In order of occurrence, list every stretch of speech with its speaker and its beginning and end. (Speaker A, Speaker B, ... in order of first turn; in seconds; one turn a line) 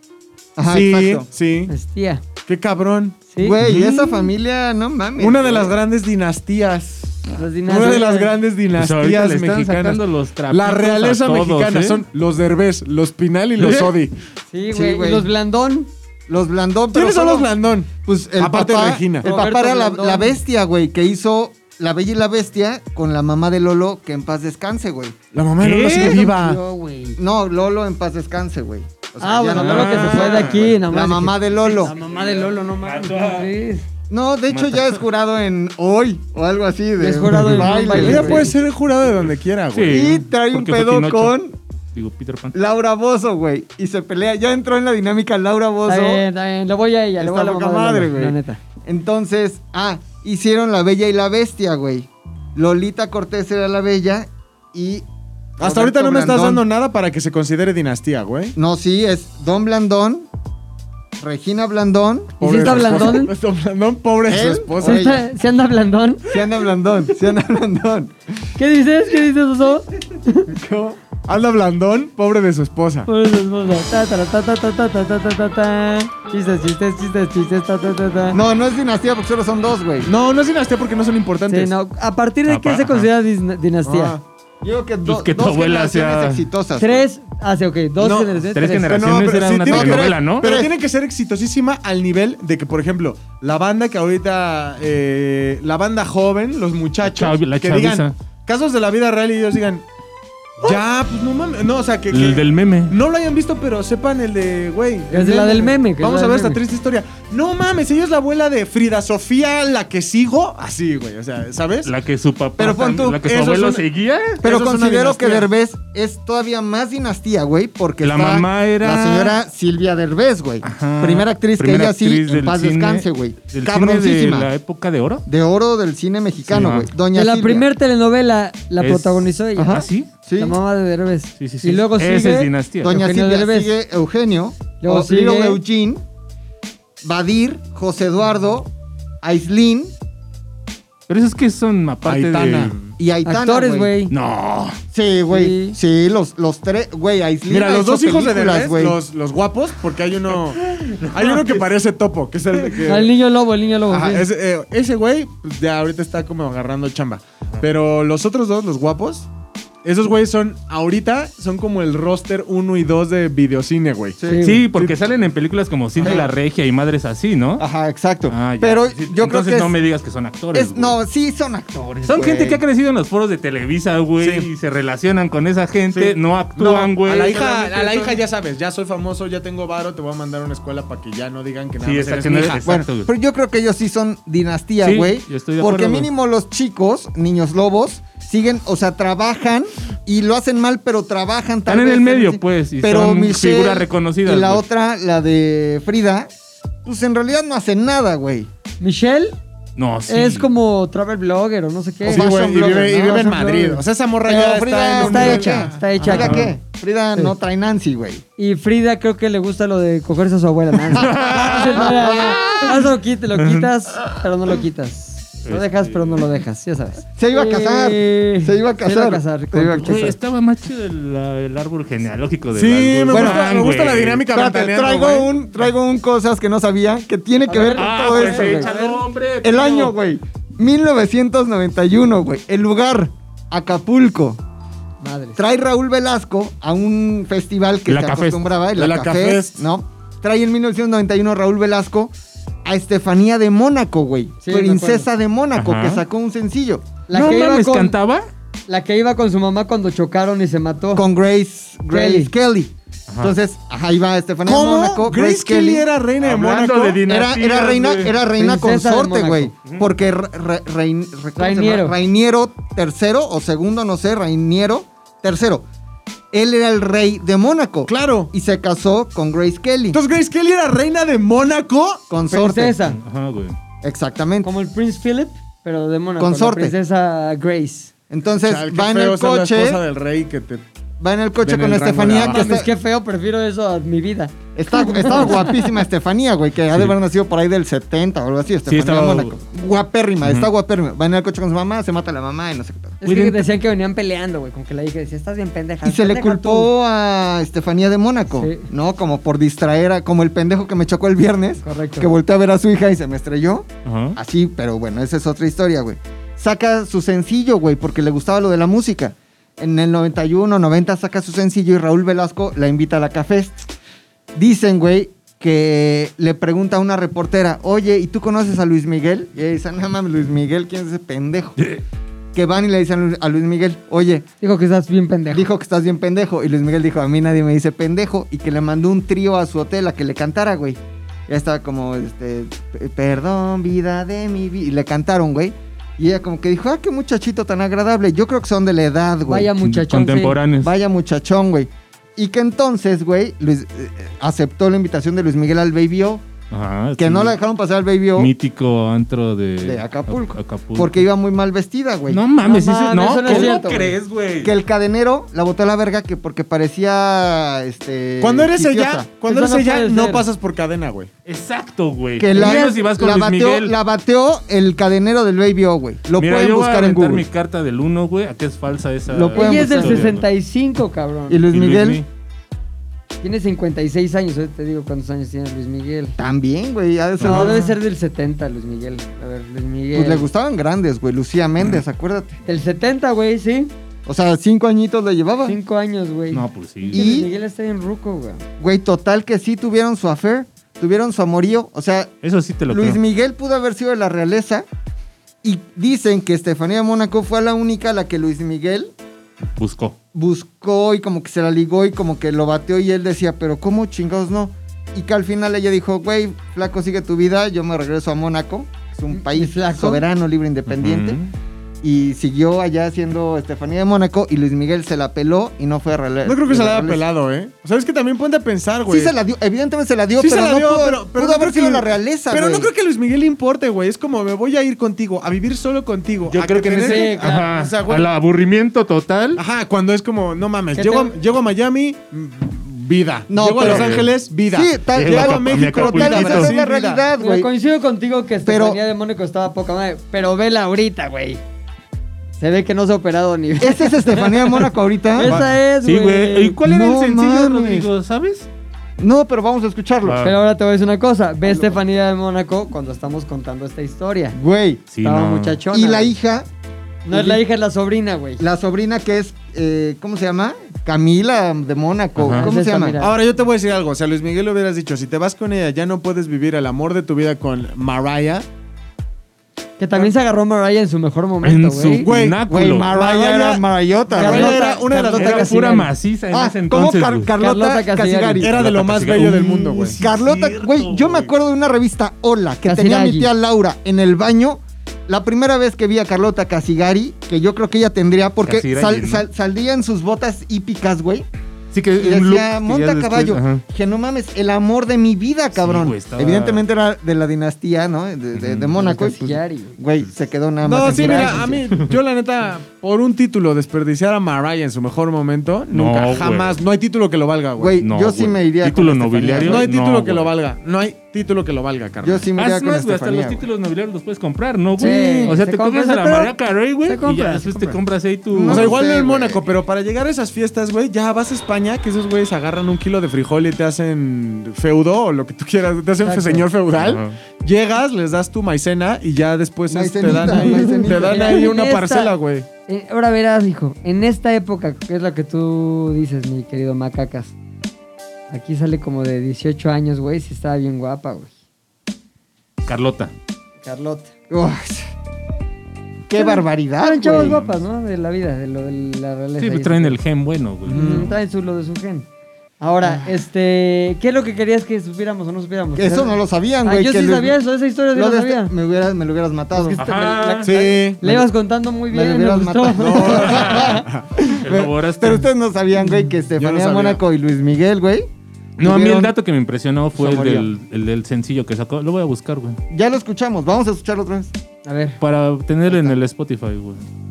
Speaker A: 0.6-1.3
Speaker B: 0.7-1.7
Speaker C: 1.7-2.2
Speaker B: 2.5-4.3
Speaker C: 3.3-3.6
Speaker A: 3.4-5.7
Speaker B: 5.2-14.2
Speaker C: 7.3-8.3
Speaker D: 8.7-12.0
Speaker D: 13.6-13.9
Speaker C: 14.5-15.9
Speaker A: 14.7-15.3
Speaker A: 16.3-25.1
Speaker B: 16.9-19.3
Speaker C: 19.2-20.4
Speaker B: 25.3-26.6
Speaker D: 25.6-26.3
Speaker C: 25.9-27.2
Speaker A: 27.2-31.9
Speaker C: 29.2-33.9
Speaker D: 29.5-30.7
Speaker D: 31.9-33.5
Speaker A: 34.1-38.5
Speaker D: 34.5-35.0
Speaker C: 37.0-38.5
Speaker D: 37.3-37.7
Speaker B: 37.9-40.1
Speaker D: 39.7-41.4
Speaker A: 39.9-41.5
Speaker D: 41.9-42.5
Speaker A: 42.5-46.2
Speaker C: 45.9-48.6
Speaker A: 47.2-55.0
Speaker A: 55.6-56.6
Speaker B: 55.6-58.5
Speaker A: 58.5-60.3
Speaker A: 61.2-63.2
Speaker C: 62.4-63.3
Speaker B: 62.4-65.1
Speaker A: 64.2-65.2
Speaker C: 64.8-66.3
Speaker A: 66.3-68.1
Speaker C: 68.6-70.5
Speaker A: 70.5-71.0
Speaker B: 71.2-73.1
Speaker C: 73.1-78.4
Speaker A: 78.3-80.1
Speaker B: 80.0-81.7
Speaker C: 81.5-84.2
Speaker D: 82.5-83.1
Speaker B: 83.8-84.2
Speaker A: 84.6-87.0
Speaker D: 85.0-86.4
Speaker C: 86.8-89.1
Speaker B: 88.0-99.8
Speaker D: 88.5-90.5
Speaker A: 89.6-90.7
Speaker D: 97.0-98.1
Speaker B: 100.6-111.9
Speaker D: 102.1-102.9
Speaker C: 105.1-106.6
Speaker D: 111.8-114.4
Speaker A: 112.6-113.2
Speaker B: 113.1-113.8
Speaker A: 114.4-124.5
Speaker B: 114.4-115.5
Speaker D: 118.0-119.3
Speaker D: 120.6-125.2
Speaker A: 125.2-127.7
Speaker D: 126.5-126.9
Speaker C: 127.1-129.8
Speaker D: 128.8-130.1
Speaker A: 129.6-130.6
Speaker C: 130.4-133.7
Speaker D: 131.4-133.0
Speaker A: 132.8-136.0
Speaker C: 134.8-135.6
Speaker A: 137.0-138.7
Speaker A: 139.2-139.9
Speaker D: 141.1-142.8
Speaker B: 142.0-142.8
Speaker A: 143.0-144.0
Speaker C: 143.2-144.1
Speaker D: 144.1-144.8
Speaker A: 144.9-149.0
Speaker C: 145.3-145.8
Speaker B: 147.5-153.1
Speaker D: 150.5-151.6
Speaker C: 152.8-154.2
Speaker B: 153.9-159.3
Speaker B: 159.8-164.2
Speaker A: 164.2-164.5
Speaker C: 164.2-164.6
Speaker D: 164.4-167.6
Speaker B: 164.7-165.0
Speaker B: 166.0-166.3
Speaker A: 166.0-166.3
Speaker A: 167.6-169.7
Speaker D: 168.3-171.0
Speaker A: 170.5-172.6
Speaker D: 172.0-178.2
Speaker B: 174.2-174.5
Speaker B: 175.9-182.6
Speaker D: 181.8-183.1
Speaker A: 182.6-196.3
Speaker D: 184.8-186.1
Speaker D: 191.7-194.6
Speaker A: 196.8-198.5
Speaker C: 198.8-199.4
Speaker D: 199.8-200.5
Speaker C: 200.1-203.8
Speaker A: 202.0-203.6
Speaker B: 202.0-206.3
Speaker A: 204.2-208.2
Speaker C: 204.9-206.5
Speaker D: 206.1-206.5
Speaker C: 208.4-220.1
Speaker A: 210.9-212.8
Speaker D: 210.9-212.6
Speaker D: 213.3-213.7
Speaker D: 215.4-216.3
Speaker A: 217.2-220.1
Speaker D: 219.8-224.2
Speaker B: 222.5-225.3
Speaker A: 223.1-223.4
Speaker A: 224.3-228.7
Speaker C: 227.4-229.0
Speaker D: 227.7-229.9
Speaker A: 229.4-234.4
Speaker C: 235.0-235.4
Speaker A: 235.3-242.1
Speaker D: 237.9-238.5
Speaker B: 238.7-239.6
Speaker A: 242.6-246.8
Speaker C: 244.4-245.1
Speaker D: 245.6-246.0
Speaker C: 247.1-247.9
Speaker D: 247.1-248.3
Speaker C: 248.7-251.1
Speaker A: 250.9-255.9
Speaker C: 251.9-252.3
Speaker D: 253.1-253.3
Speaker B: 254.4-257.0
Speaker D: 256.2-258.2
Speaker A: 257.0-265.6
Speaker C: 258.4-259.5
Speaker C: 261.4-261.9
Speaker A: 266.3-270.0
Speaker B: 267.9-268.3
Speaker B: 269.9-272.0
Speaker A: 272.1-272.8
Speaker C: 272.3-273.0
Speaker D: 272.9-273.6
Speaker A: 273.8-274.5
Speaker C: 274.4-277.9
Speaker A: 276.2-276.8
Speaker A: 278.1-279.8
Speaker B: 278.4-280.6
Speaker A: 281.0-282.7
Speaker B: 281.4-282.6
Speaker C: 282.2-285.6
Speaker A: 284.5-293.0
Speaker D: 288.7-289.3
Speaker D: 290.2-290.5
Speaker C: 293.0-296.7
Speaker D: 293.0-293.5
Speaker A: 295.8-313.7
Speaker C: 298.3-298.7
Speaker C: 301.6-302.1
Speaker D: 303.8-304.2
Speaker A: 314.3-321.6
Speaker A: 322.3-324.2
Speaker C: 324.4-325.5
Speaker A: 325.3-339.5
Speaker C: 339.3-340.4
Speaker D: 339.6-340.7
Speaker A: 340.6-346.2
Speaker D: 346.5-347.4
Speaker A: 347.0-348.3
Speaker D: 348.1-351.0
Speaker A: 349.6-352.2
Speaker D: 352.1-354.5
Speaker C: 352.4-353.9
Speaker A: 353.2-353.7
Speaker A: 354.4-359.1
Speaker B: 358.2-361.1
Speaker C: 359.2-360.2
Speaker D: 361.2-363.7
Speaker A: 362.2-367.3
Speaker C: 362.3-362.8
Speaker D: 366.1-370.2
Speaker A: 369.1-370.1
Speaker C: 369.3-371.4
Speaker A: 371.3-372.0
Speaker D: 371.5-372.1
Speaker C: 373.2-376.2
Speaker A: 376.2-377.7
Speaker D: 377.2-377.6
Speaker C: 377.2-380.3
Speaker A: 379.9-382.4
Speaker C: 382.4-383.7
Speaker A: 384.1-385.6
Speaker C: 385.4-388.4
Speaker D: 386.3-387.0
Speaker A: 386.9-387.3
Speaker A: 388.6-392.1
Speaker D: 392.2-393.0
Speaker A: 392.7-394.6
Speaker A: 395.4-398.9
Speaker D: 399.6-400.0
Speaker A: 400.1-411.2
Speaker C: 409.1-410.0
Speaker D: 410.7-411.3
Speaker A: 411.8-417.0
Speaker B: 416.2-419.1
Speaker A: 418.9-422.7
Speaker B: 420.2-428.1
Speaker D: 426.3-429.4
Speaker C: 426.8-427.5
Speaker B: 429.4-437.0
Speaker C: 430.7-431.1
Speaker A: 433.3-437.5
Speaker D: 433.6-434.1
Speaker D: 434.9-436.5
Speaker C: 437.2-441.4
Speaker A: 438.4-438.8
Speaker C: 442.4-446.6
Speaker A: 443.6-445.4
Speaker D: 445.2-448.5
Speaker A: 446.6-447.9
Speaker A: 449.0-450.2
Speaker D: 450.0-450.4
Speaker C: 450.2-454.4
Speaker A: 451.4-451.7
Speaker A: 454.3-454.9
Speaker D: 454.9-455.6
Speaker C: 455.0-456.1
Speaker A: 455.7-456.5
Speaker C: 457.0-458.4
Speaker A: 457.1-457.4
Speaker A: 458.4-463.0
Speaker D: 462.2-462.5
Speaker C: 462.3-463.1
Speaker B: 463.0-468.4
Speaker C: 469.8-472.1
Speaker D: 471.4-472.9
Speaker B: 471.9-475.7
Speaker A: 472.4-474.6
Speaker C: 474.2-475.9
Speaker D: 475.1-477.3
Speaker A: 476.3-478.5
Speaker C: 477.4-478.4
Speaker B: 478.4-480.0
Speaker D: 478.4-481.3
Speaker A: 479.9-491.3
Speaker C: 482.6-483.3
Speaker D: 488.4-489.2
Speaker D: 491.7-493.6
Speaker A: 491.9-501.6
Speaker D: 495.5-496.6
Speaker D: 498.3-498.8
Speaker C: 498.8-499.8
Speaker B: 500.6-507.8
Speaker C: 500.9-501.5
Speaker D: 505.7-506.6
Speaker A: 507.6-509.7
Speaker D: 507.8-510.3
Speaker B: 509.4-512.3
Speaker A: 512.0-513.5
Speaker D: 512.4-518.8
Speaker C: 514.8-516.3
Speaker A: 514.8-515.4
Speaker C: 516.8-517.8
Speaker A: 518.3-519.5
Speaker B: 518.5-532.5
Speaker C: 526.0-526.5
Speaker D: 526.7-527.2
Speaker A: 529.7-531.5
Speaker C: 530.1-532.1
Speaker C: 532.7-537.3
Speaker C: 538.3-541.3
Speaker D: 542.6-543.1
Speaker C: 543.6-544.1
Speaker A: 544.3-544.9
Speaker A: 546.1-547.4
Speaker C: 546.1-550.0
Speaker D: 547.2-547.5
Speaker D: 549.4-551.1
Speaker B: 550.6-551.1
Speaker C: 550.7-552.0
Speaker C: 552.6-558.5
Speaker A: 555.8-557.4
Speaker A: 557.9-559.8
Speaker C: 559.5-563.8
Speaker D: 559.8-560.5
Speaker B: 560.4-561.0
Speaker A: 561.0-561.3
Speaker A: 561.9-569.1
Speaker B: 562.8-564.6
Speaker D: 563.2-563.8
Speaker D: 564.4-565.3
Speaker B: 566.4-567.0
Speaker D: 568.6-572.6
Speaker A: 569.9-570.5
Speaker A: 572.7-574.3
Speaker C: 574.6-575.0
Speaker D: 575.0-576.8
Speaker A: 575.7-575.9